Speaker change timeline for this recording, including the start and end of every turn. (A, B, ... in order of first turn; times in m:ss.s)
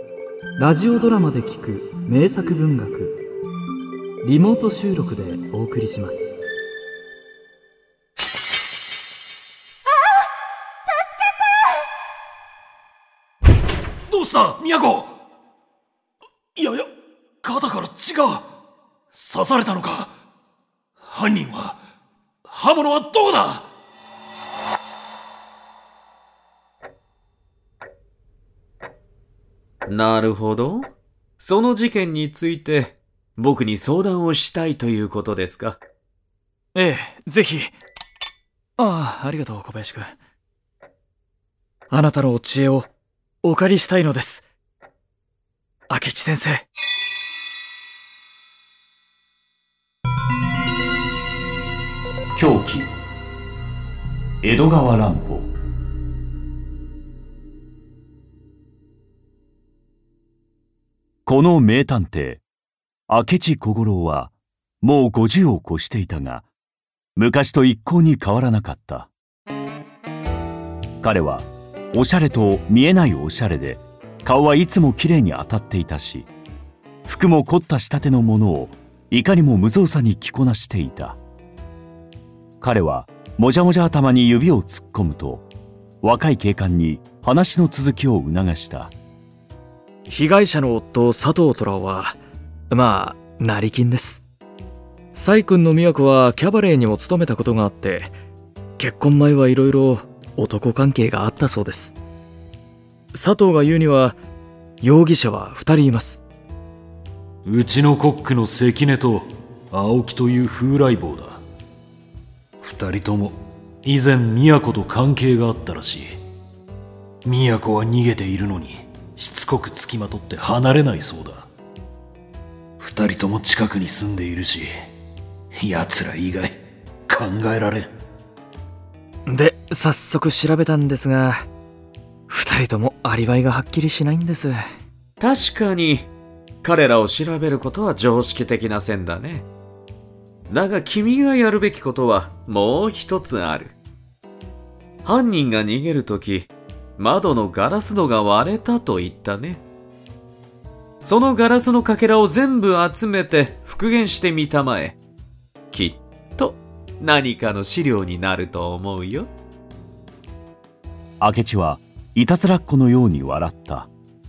0:00.6-0:03.2 A
0:04.2-0:06.3 A
0:14.1-0:15.2 B
0:16.6-0:16.9 B
0:17.4-0:18.5 B
0:19.1-0:20.1 B
0:21.0-0:21.8 B
0:22.5-0:23.7 B
0:29.9-0:35.8 C
0:36.8-0:37.8 A
0:38.8-0:40.2 A
0:41.9-0:42.9 A
0:43.4-0:44.4 A
0:45.9-0:46.7 A
0:52.4-0:52.9 D
0:54.4-0:55.5 D
1:01.3-1:02.4 D
1:03.1-1:06.5 D
1:07.2-1:09.1 D
1:11.0-1:16.3 D
1:17.1-1:21.2 D
1:22.6-1:25.5 D
1:26.0-1:28.9 D
1:30.1-1:32.2 A
1:32.7-1:34.2 A
1:35.1-1:38.2 A
1:38.8-1:42.0 A
1:43.1-1:44.2 A
1:44.8-1:46.2 A
1:47.4-1:51.4 B
1:52.6-1:56.2 B
1:57.2-2:01.5 B
2:02.8-2:04.7 B
2:05.5-2:06.6 B
2:07.1-2:07.9 B
2:09.3-2:11.5 A
2:12.3-2:14.7 A
2:15.2-2:16.1 C
2:16.6-2:19.5 C
2:20.5-2:23.8 C
2:25.0-2:29.6 C
2:31.0-2:35.0 C
2:35.7-2:39.3 C
2:41.2-2:43.9 D